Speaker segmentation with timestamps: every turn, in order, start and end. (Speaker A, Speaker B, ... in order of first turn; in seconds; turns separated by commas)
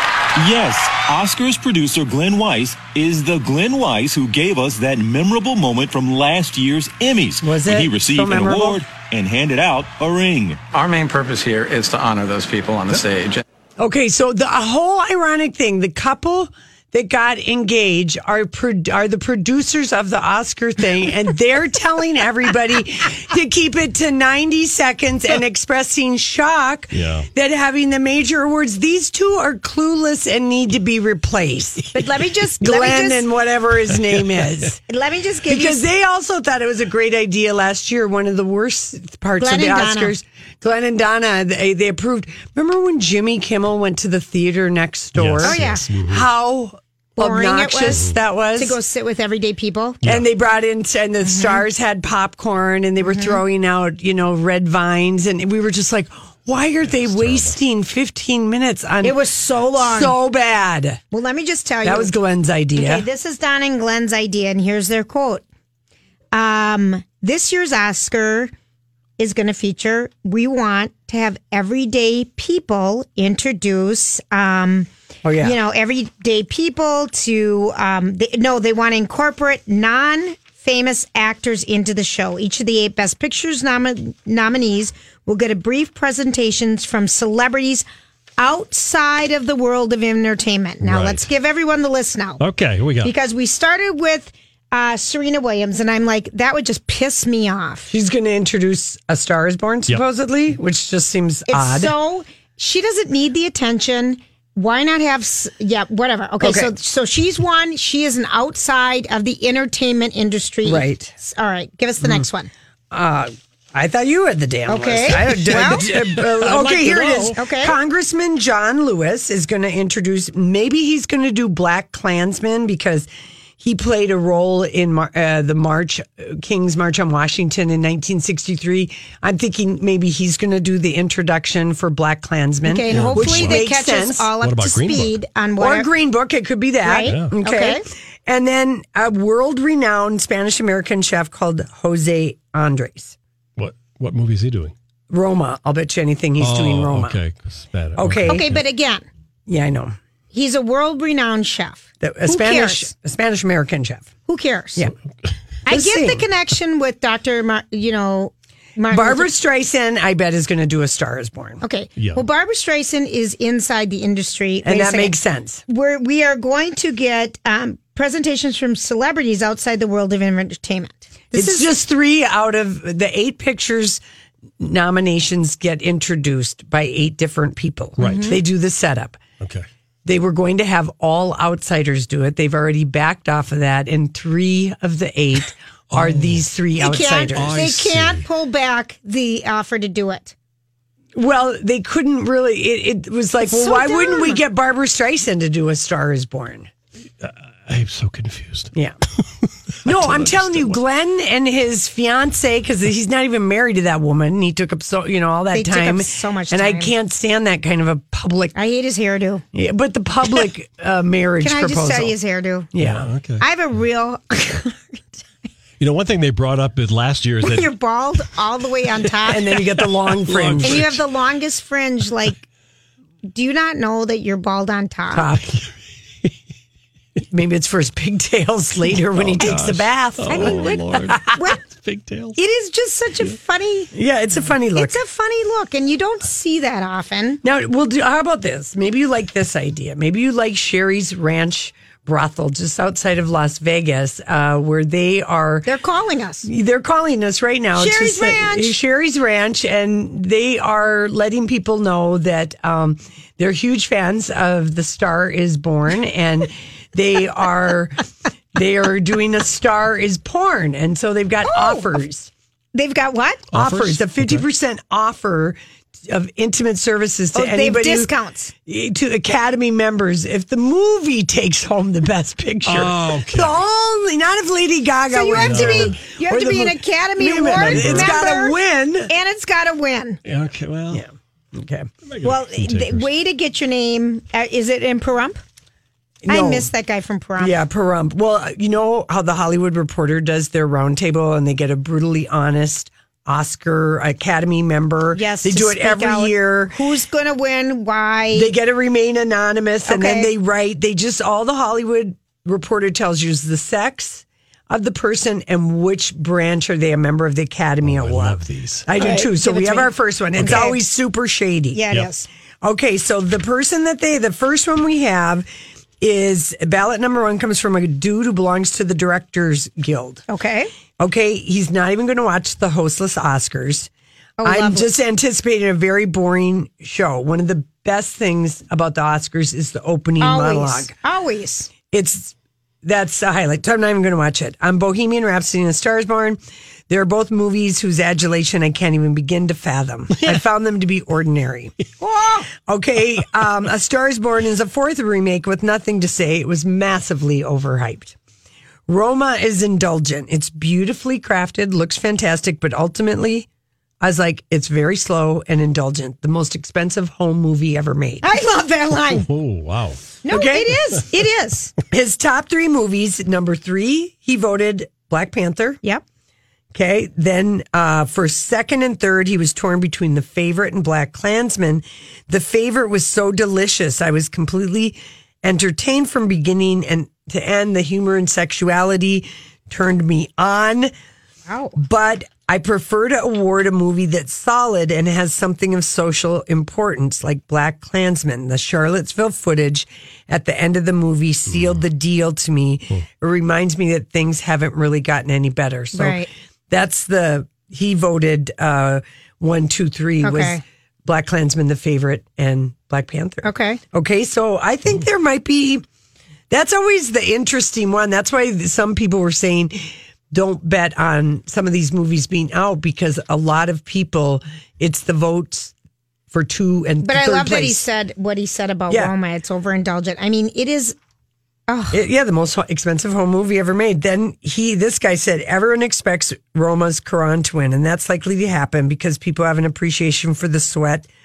Speaker A: 0.3-10.6, Speaker B: 7.4-8.8, Speaker C: 10.7-13.4, Speaker B: 13.8-32.0, Speaker D: 26.9-27.2, Speaker E: 31.9-33.2, Speaker B: 32.6-34.8, Speaker E: 34.9-35.8, Speaker B: 35.5-48.8, Speaker E: 39.4-40.1, Speaker D: 45.2-46.2, Speaker E: 45.4-45.8, Speaker E: 47.2-48.0, Speaker E: 48.6-50.0, Speaker B: 50.0-59.2, Speaker E: 51.2-51.6, Speaker E: 53.0-53.4, Speaker D: 56.8-57.5, Speaker E: 59.0-60.1, Speaker B: 59.7-61.0, Speaker E: 61.1-62.1, Speaker B: 61.8-63.0, Speaker E: 62.7-65.4, Speaker E: 66.3-68.5, Speaker E: 69.2-74.9, Speaker B: 75.2-75.5, Speaker E: 75.4-87.8, Speaker E: 88.4-92.4, Speaker D: 90.8-91.2, Speaker D: 92.4-93.1, Speaker E: 93.0-97.9, Speaker B: 97.9-101.9, Speaker E: 101.5-112.5, Speaker B: 106.4-106.7, Speaker B: 110.6-111.1, Speaker B: 112.9-123.1, Speaker E: 114.7-115.9, Speaker D: 115.3-117.3, Speaker E: 117.3-117.8, Speaker B: 123.6-134.3, Speaker E: 132.6-135.9, Speaker D: 132.9-133.7, Speaker D: 134.4-135.2, Speaker B: 135.6-143.2, Speaker E: 136.8-137.8, Speaker D: 137.0-137.3, Speaker D: 143.6-144.7, Speaker B: 145.1-147.2, Speaker D: 146.4-148.6, Speaker B: 148.0-148.4, Speaker E: 148.2-149.1, Speaker B: 149.5-149.9, Speaker E: 150.3-152.8, Speaker B: 152.0-154.1, Speaker E: 154.2-154.9, Speaker E: 155.7-159.3, Speaker B: 155.7-156.2, Speaker B: 158.9-161.6, Speaker E: 161.6-165.1, Speaker D: 161.9-162.2, Speaker B: 164.6-165.6, Speaker E: 165.7-171.7, Speaker B: 171.3-174.0, Speaker B: 174.6-179.2, Speaker D: 178.0-178.4, Speaker E: 178.0-178.3, Speaker D: 179.4-179.6, Speaker B: 180.0-187.6, Speaker D: 185.9-186.5, Speaker E: 186.8-190.3, Speaker D: 187.3-188.2, Speaker B: 191.1-196.7, Speaker E: 193.4-194.4, Speaker D: 197.2-198.7, Speaker D: 199.8-200.8, Speaker B: 199.8-208.6, Speaker E: 205.5-206.9, Speaker E: 208.5-209.4, Speaker B: 209.5-212.1, Speaker E: 211.4-212.7, Speaker B: 212.7-213.1, Speaker D: 212.8-213.4, Speaker E: 213.4-215.5, Speaker D: 215.8-217.7, Speaker E: 217.4-219.5, Speaker B: 219.3-221.0, Speaker D: 220.2-221.0, Speaker E: 220.6-222.4, Speaker E: 223.3-225.3, Speaker B: 225.1-225.6, Speaker B: 227.3-231.2, Speaker D: 229.2-232.3, Speaker E: 230.3-231.6, Speaker E: 232.3-233.9, Speaker B: 233.9-235.0, Speaker E: 234.7-237.4, Speaker B: 237.4-245.7, Speaker E: 245.7-246.5, Speaker B: 246.4-258.0, Speaker E: 247.8-248.7, Speaker B: 258.5-262.3, Speaker E: 261.4-261.9, Speaker E: 262.7-263.5, Speaker D: 263.5-264.4, Speaker B: 263.5-268.1, Speaker E: 267.4-268.5, Speaker B: 268.7-279.1, Speaker D: 272.6-273.6, Speaker E: 275.1-278.6, Speaker D: 275.3-276.0, Speaker D: 277.4-278.2, Speaker E: 279.1-280.2, Speaker D: 280.2-281.0, Speaker B: 280.9-281.9, Speaker D: 282.1-283.1, Speaker E: 282.2-285.4, Speaker B: 286.2-286.7, Speaker E: 286.3-287.6, Speaker B: 287.4-296.8, Speaker E: 295.1-298.5, Speaker B: 298.3-311.8, Speaker E: 299.9-300.3, Speaker D: 307.8-309.2, Speaker E: 309.0-310.8, Speaker D: 310.4-310.7, Speaker E: 311.7-312.3, Speaker B: 312.6-315.5, Speaker B: 316.0-320.2, Speaker E: 320.3-320.7, Speaker B: 321.0-323.9, Speaker E: 324.4-324.9, Speaker B: 324.4-330.9, Speaker E: 330.2-331.7, Speaker B: 331.9-341.7, Speaker E: 342.0-342.5, Speaker B: 342.6-348.1, Speaker B: 348.9-353.5, Speaker B: 354.0-358.3, Speaker E: 358.2-359.3, Speaker D: 359.1-360.1, Speaker E: 360.2-361.7, Speaker B: 360.3-360.8, Speaker B: 361.9-365.8, Speaker B: 366.7-380.9, Speaker E: 381.5-381.8, Speaker B: 381.8-405.8, Speaker D: 391.5-391.8, Speaker E: 395.9-396.3, Speaker E: 400.2-400.6, Speaker E: 403.4-403.8, Speaker B: 406.5-415.7, Speaker B: 416.3-417.8, Speaker E: 417.0-420.9, Speaker E: 421.7-422.0, Speaker B: 421.9-431.1